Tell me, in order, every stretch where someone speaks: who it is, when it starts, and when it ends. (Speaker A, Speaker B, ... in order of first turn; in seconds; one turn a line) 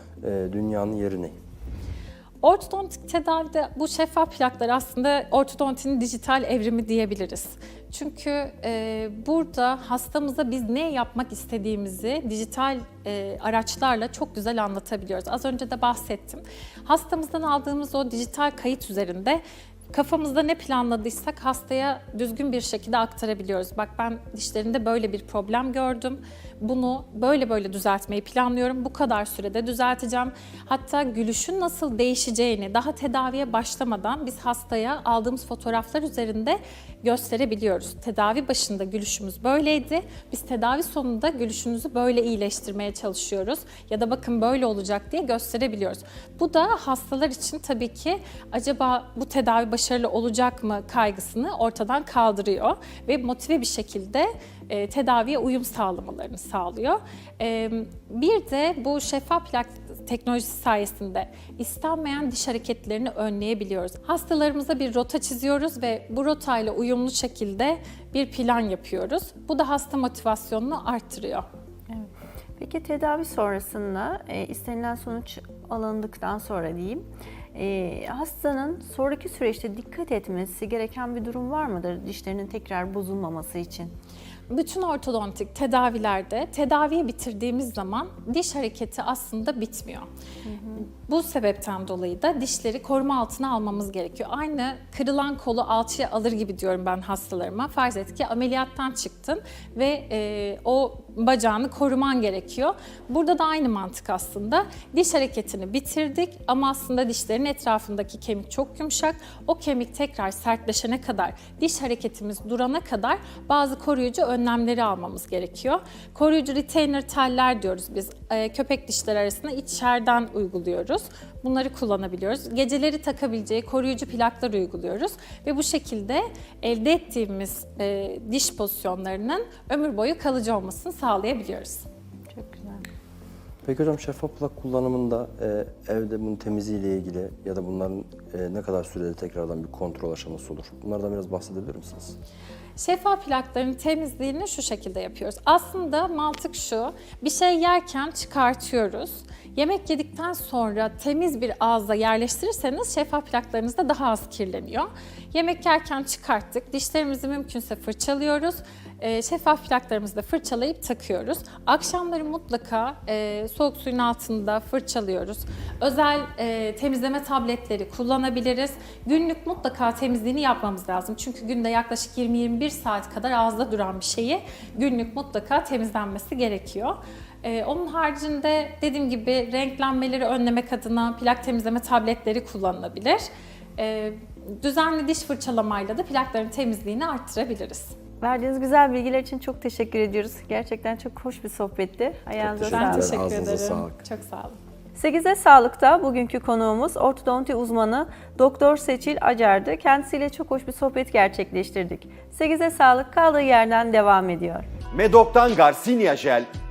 Speaker A: 0.2-1.4
Speaker B: 2.4-71.5
Speaker C: 72.6-77.0
Speaker C: 77.5-83.9
Speaker B: 84.5-90.1
Speaker C: 90.5-90.9
Speaker B: 91.0-131.9
Speaker C: 132.3-132.8
Speaker A: 133.7-142.2
Speaker B: 142.8-183.3
Speaker B: 183.8-187.9
Speaker C: 188.2-193.2
Speaker A: 192.4-194.0
Speaker B: 192.6-194.6
Speaker C: 194.9-204.7